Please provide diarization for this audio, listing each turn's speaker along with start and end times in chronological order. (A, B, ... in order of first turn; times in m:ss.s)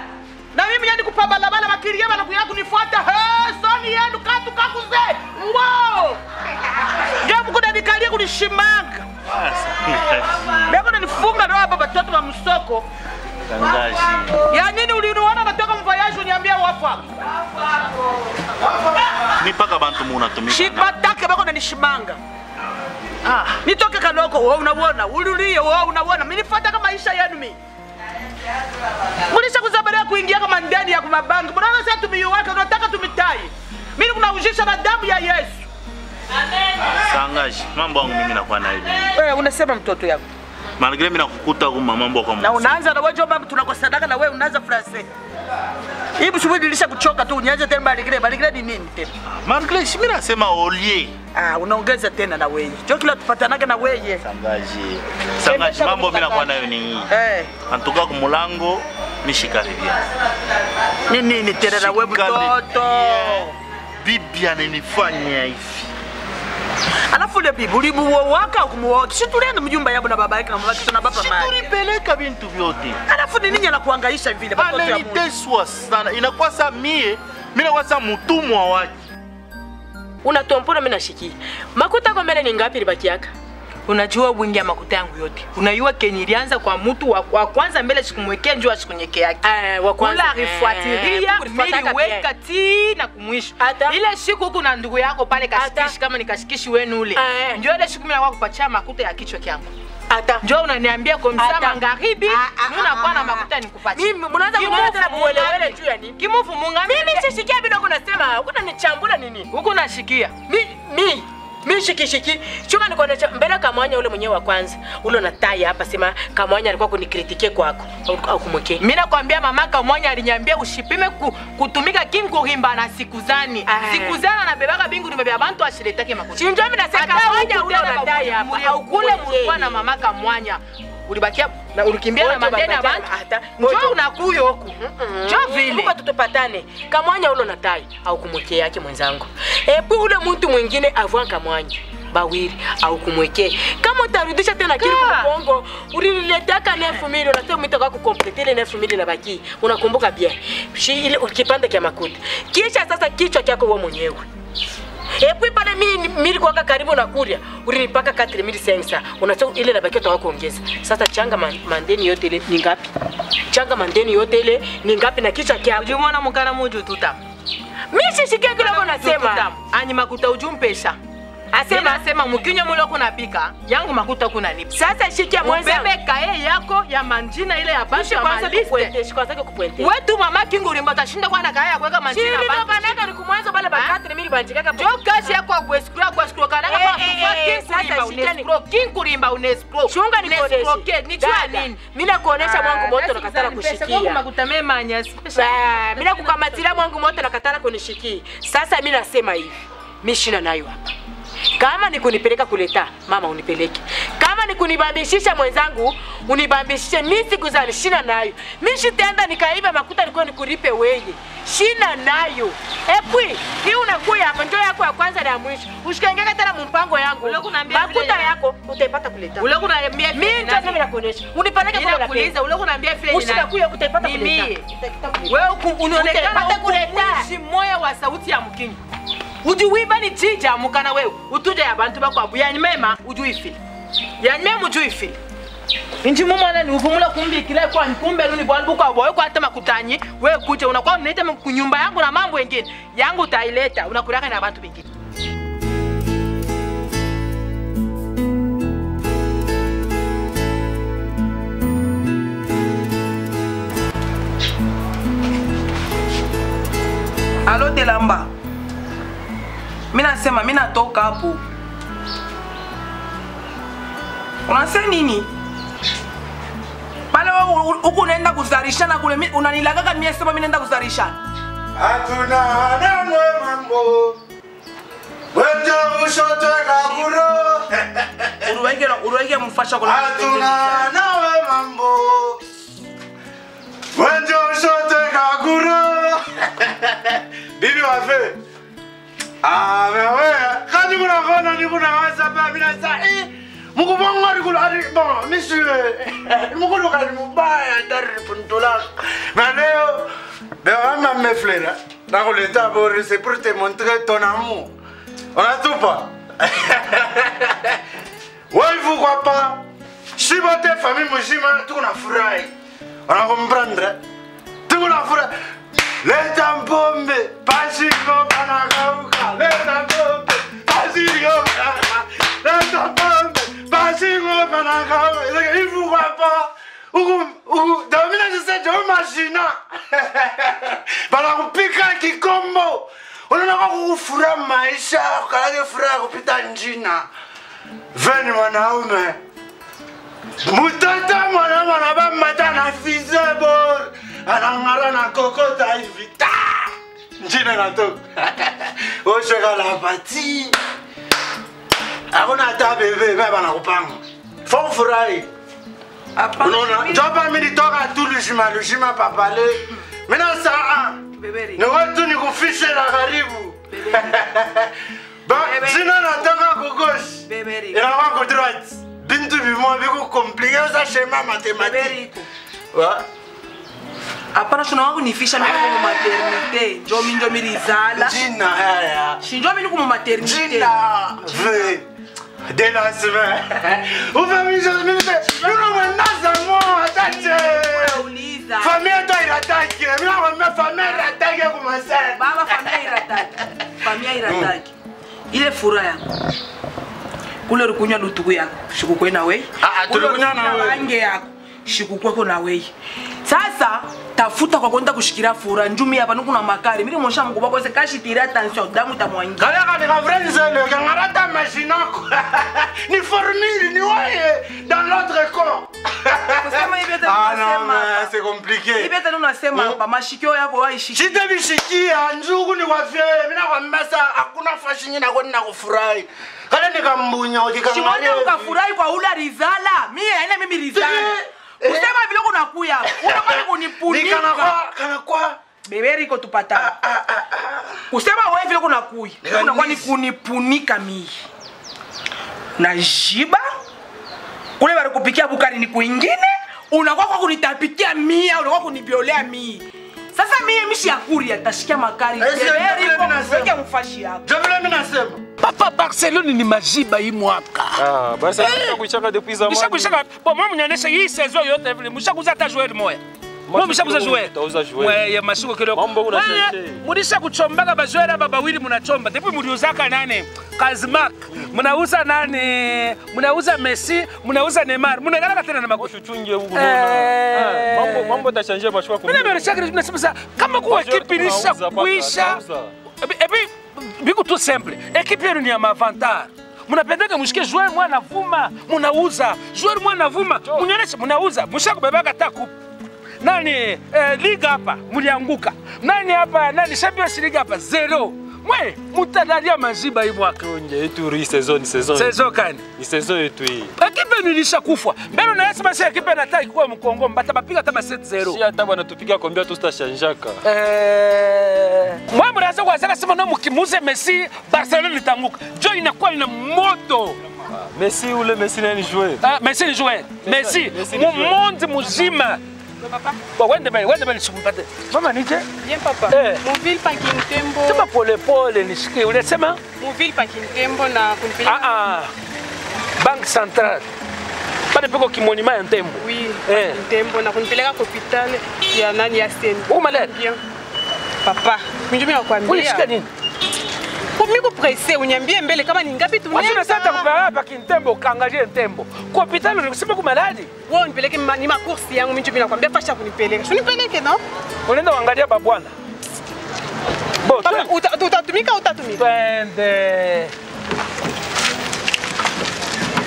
0:00.5-0:06.2 A
0:07.2-0:09.0 A
0:09.3-0:10.4 B
0:10.7-0:12.8 A
0:13.5-0:14.4 B
0:14.5-0:17.1 A
0:19.4-0:20.9 B
0:20.4-0:22.2 A
0:23.2-0:27.6 A
0:29.3-0:35.6 A
0:37.0-0:39.1 B
0:39.1-0:40.2 A
0:40.8-0:42.8 B
0:42.4-0:45.1 A
0:46.2-0:49.1 A
0:49.4-0:51.1 B
0:51.3-0:54.2 A
0:54.2-0:57.1 B
0:55.4-0:56.5 A
0:57.1-0:57.5 A
0:57.7-1:00.0 B
1:01.1-1:03.5 A
1:01.3-1:03.5 B
1:04.0-1:05.9 B
1:07.1-1:11.6 A
1:11.0-1:13.0 B
1:13.1-1:15.3 A
1:14.5-1:18.9 B
1:20.2-1:23.3 C
1:23.9-1:47.2 D
1:29.4-1:32.3 C
1:33.6-1:34.0 C
1:35.5-1:35.9 C
1:37.1-1:37.6 C
1:41.3-1:46.2 C
1:46.8-1:49.5 C
1:49.5-1:50.3 D
1:50.5-1:58.8 C
1:58.8-2:15.9 D
2:03.6-2:04.2 C
2:06.3-2:09.9 C
2:12.0-2:14.0 C
2:14.7-2:34.3 C
2:24.8-2:25.3 D
2:35.2-2:42.9 C
2:43.5-2:46.0 C
2:45.7-2:47.2 D
2:47.9-2:49.5 C
2:48.5-2:51.0 D
2:51.5-2:58.9 D
2:51.5-2:52.0 C
2:54.7-2:55.9 C
2:57.9-2:59.9 C
2:59.8-3:03.0 D
3:02.1-3:05.4 C
3:03.7-3:04.0 D
3:04.7-3:11.8 D
3:06.6-3:08.5 C
3:09.9-3:14.2 C
3:12.4-3:16.8 D
3:15.3-3:20.9 C
3:21.6-3:39.5 C
3:37.2-3:38.4 D
3:39.4-3:40.9 D
3:40.1-3:42.3 C
3:41.6-3:48.8 D
3:43.0-3:44.5 C
3:45.1-3:47.3 C
3:49.4-3:53.6 D
3:54.2-3:55.2 D
3:56.0-4:04.8 D
4:17.4-4:18.3 A
4:19.9-4:21.4 A
4:24.5-4:25.3 A
4:27.1-4:31.2 A
4:31.8-4:34.2 E
4:35.3-4:38.5 E
4:38.4-4:40.9 A
4:39.8-4:42.4 E
4:43.9-4:48.4 E
4:49.4-5:00.1 E
5:00.6-5:04.7 E
5:05.3-5:07.8 E
5:08.5-5:09.6 E
5:10.2-5:12.5 E
5:13.1-5:14.0 E
5:14.7-5:15.3 E
5:16.0-5:37.1 E
5:37.9-5:39.2 E
5:40.4-5:50.5 E
5:52.1-5:55.3 E
5:56.2-5:57.1 A
5:56.4-6:01.0 E
6:01.2-6:01.6 A
6:01.5-6:04.7 E
6:03.7-6:04.2 A
6:05.2-6:12.0 E
6:05.3-6:06.3 A
6:07.3-6:07.8 A
6:11.6-6:12.3 A
6:12.7-6:13.0 E
6:14.3-6:18.2 A
6:15.4-6:16.4 E
6:17.9-6:19.2 E
6:19.2-6:21.6 A
6:20.2-6:21.8 E
6:22.5-6:28.0 E
6:25.2-6:26.0 A
6:27.0-6:28.8 A
6:28.6-6:32.7 E
6:32.1-6:34.7 A
6:34.2-6:34.5 E
6:35.3-6:36.1 A
6:37.5-6:42.7 A
6:39.6-6:40.9 E
6:43.2-6:49.5 A
6:49.4-6:59.0 E
6:56.2-6:58.1 A
6:58.8-7:01.2 A
6:59.5-6:59.8 E
7:00.9-7:08.6 E
7:07.6-7:14.6 A
7:10.7-7:11.9 E
7:12.9-7:15.4 E
7:15.6-7:16.7 A
7:16.5-7:17.7 E
7:17.9-7:21.2 A
7:19.2-7:19.9 E
7:22.6-7:23.4 A
7:24.6-7:34.2 A
7:32.2-7:33.6 E
7:34.2-7:35.2 E
7:35.4-7:37.8 F
7:37.8-7:40.0 G
7:38.4-7:38.8 F
7:39.4-7:55.9 F
7:43.5-7:45.0 G
7:45.7-7:46.8 G
7:55.8-7:59.6 G
7:56.5-7:58.2 F
7:59.0-8:02.4 F
8:00.6-8:02.7 G
8:03.0-8:12.5 F
8:13.2-8:20.4 F
8:20.4-8:22.2 G
8:21.9-8:22.6 F
8:22.7-8:23.7 G
8:23.8-8:28.4 F
8:28.2-8:30.4 G
8:30.4-8:37.2 F
8:37.5-8:39.2 G
8:39.2-8:42.4 F
8:40.2-8:41.4 G
8:42.8-8:43.2 H
8:43.3-8:45.5 F
8:45.6-8:47.8 H
8:46.1-8:46.4 F
8:47.7-8:49.6 F
8:49.8-8:51.8 H
8:51.4-8:52.1 F
8:53.0-8:53.8 F
8:54.7-8:56.8 F
8:56.0-9:00.4 H
8:59.7-9:00.1 F
9:01.2-9:02.9 H
9:02.5-9:03.1 F
9:04.2-9:07.1 H
9:06.3-9:10.5 F
9:10.7-9:14.2 H
9:14.7-9:15.7 F
9:17.2-9:17.7 F
9:17.3-9:19.0 H
9:19.0-9:20.3 F